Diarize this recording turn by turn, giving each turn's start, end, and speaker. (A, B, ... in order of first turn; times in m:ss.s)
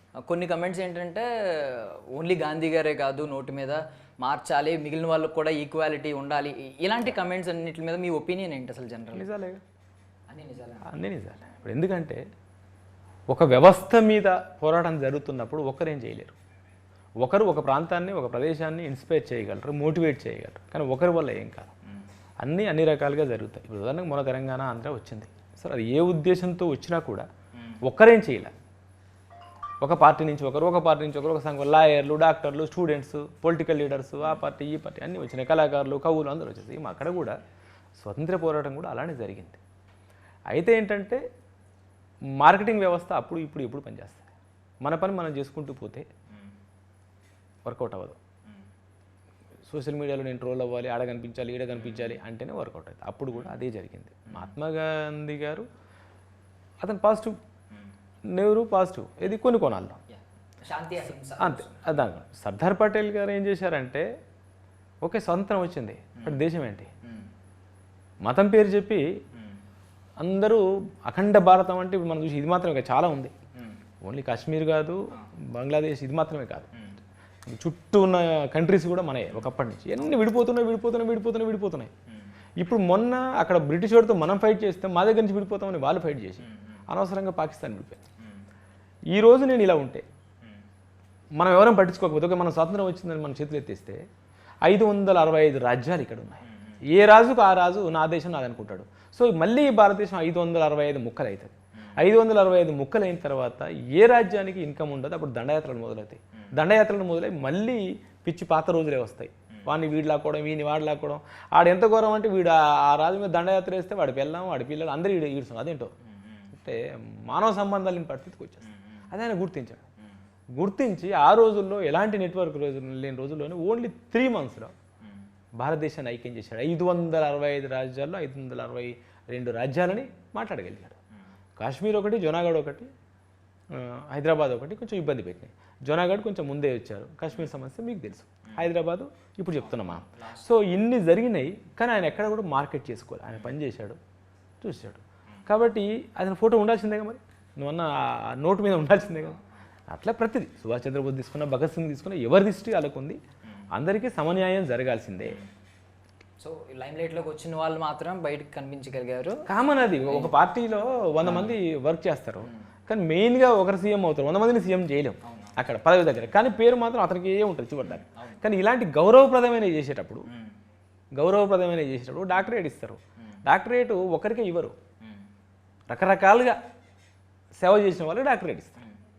0:00.2-0:09.3 A
0:09.1-0:09.6 B
0:10.3-0:10.8 A
0:10.8-0:12.2 B
0:13.3-0:16.4 B
0:17.2-0:21.7 B
0:22.4-0:27.3 B
0:27.8-0:28.5 B
0:29.8-0:37.4 B
0:38.0-0:39.6 B
0:40.5-0:41.2 B
0:42.4-0:44.3 B
0:44.8-0:46.1 B
0:47.6-0:48.2 B
0:49.6-0:55.7 B
0:51.8-0:52.1 A
0:56.8-0:57.4 B
0:58.3-1:00.0 B
1:00.1-1:01.9 A
1:01.4-1:04.0 B
1:05.0-1:06.9 B
1:08.2-1:09.1 B
1:10.2-1:13.3 B
1:14.0-1:16.8 B
1:16.7-1:17.0 A
1:17.4-1:21.9 B
1:22.6-1:28.0 B
1:26.4-1:26.8 A
1:29.1-1:30.0 B
1:31.4-1:34.0 B
1:34.6-1:55.9 B
1:56.2-1:56.4 A
1:56.5-1:59.8 B
1:58.7-1:59.0 A
2:00.6-2:04.7 B
2:05.6-2:11.0 B
2:11.6-2:12.9 B
2:13.7-2:24.0 B
2:19.7-2:20.5 A
2:24.6-2:29.4 B
2:29.9-2:33.2 B
2:33.7-2:35.4 B
2:36.4-2:39.4 A
2:39.4-2:50.3 B
2:40.0-2:40.3 A
2:41.2-2:41.6 A
2:45.2-2:45.6 A
2:47.8-2:48.4 A
2:51.1-2:54.7 B
2:55.9-2:56.6 B
2:57.6-2:58.8 B